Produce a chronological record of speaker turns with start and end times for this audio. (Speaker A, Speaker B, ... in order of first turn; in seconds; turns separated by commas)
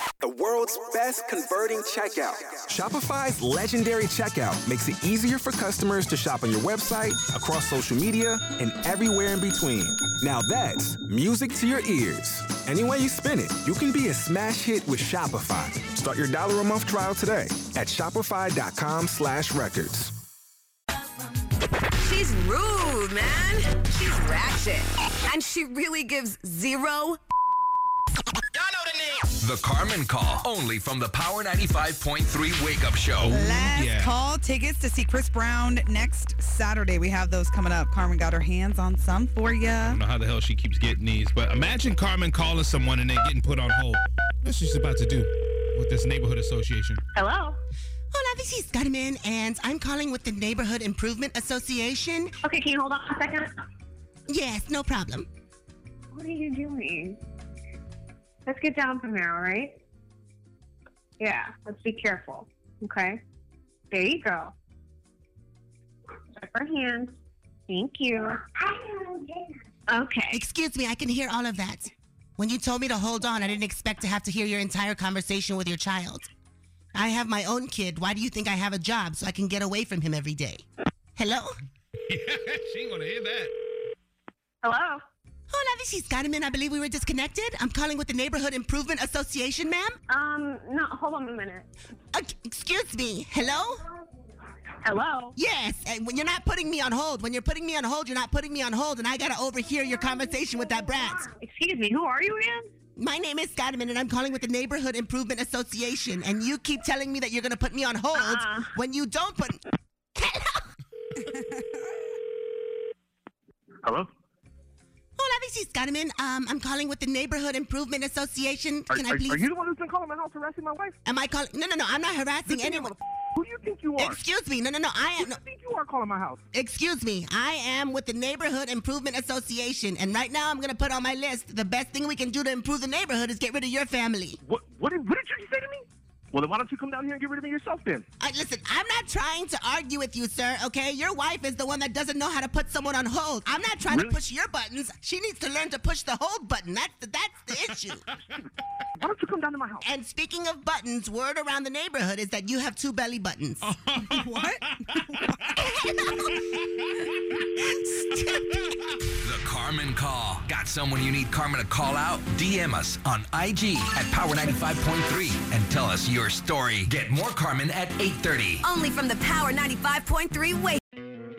Speaker A: 0.2-20.1, Speaker B: 22.0-27.2, Speaker C: 29.4-33.4, Speaker D: 33.2-34.2, Speaker E: 33.3-40.0, Speaker D: 39.9-47.0, Speaker E: 47.2-47.5, Speaker F: 47.2-47.5, Speaker G: 48.1-52.3, Speaker F: 52.5-53.5, Speaker E: 52.5-53.4, Speaker G: 54.3-55.3, Speaker F: 56.1-57.1, Speaker E: 56.2-57.2, Speaker E: 58.5-59.7, Speaker F: 58.5-59.7, Speaker F: 61.2-63.2, Speaker E: 61.2-62.3, Speaker F: 63.9-64.5, Speaker E: 63.9-64.5, Speaker E: 66.4-67.1, Speaker F: 66.5-67.1, Speaker E: 67.7-70.3, Speaker F: 67.7-68.9, Speaker F: 69.9-70.4, Speaker G: 70.3-76.3, Speaker G: 77.0-80.7, Speaker G: 81.2-81.5, Speaker D: 82.1-83.5, Speaker F: 84.6-85.0, Speaker E: 84.7-85.0, Speaker G: 85.5-90.0, Speaker F: 90.1-91.7, Speaker E: 90.1-91.6, Speaker G: 92.1-93.8, Speaker F: 94.9-95.3, Speaker E: 94.9-95.3, Speaker G: 95.4-101.3, Speaker E: 101.3-102.6, Speaker F: 101.5-102.6, Speaker G: 103.0-109.6, Speaker F: 108.3-108.6, Speaker G: 110.2-110.7, Speaker H: 113.8-114.1, Speaker G: 115.2-119.4, Speaker H: 118.9-121.0, Speaker G: 121.0-122.9, Speaker H: 122.5-124.2, Speaker G: 124.0-125.4, Speaker H: 125.2-126.4, Speaker G: 126.5-134.4, Speaker H: 134.4-138.1, Speaker G: 138.2-148.1, Speaker H: 143.9-144.2, Speaker H: 149.0-149.8, Speaker G: 149.8-153.8, Speaker D: 153.8-154.2, Speaker E: 154.1-154.6, Speaker G: 155.6-156.4, Speaker G: 157.7-158.7, Speaker C: 159.2-168.7, Speaker B: 168.6-170.8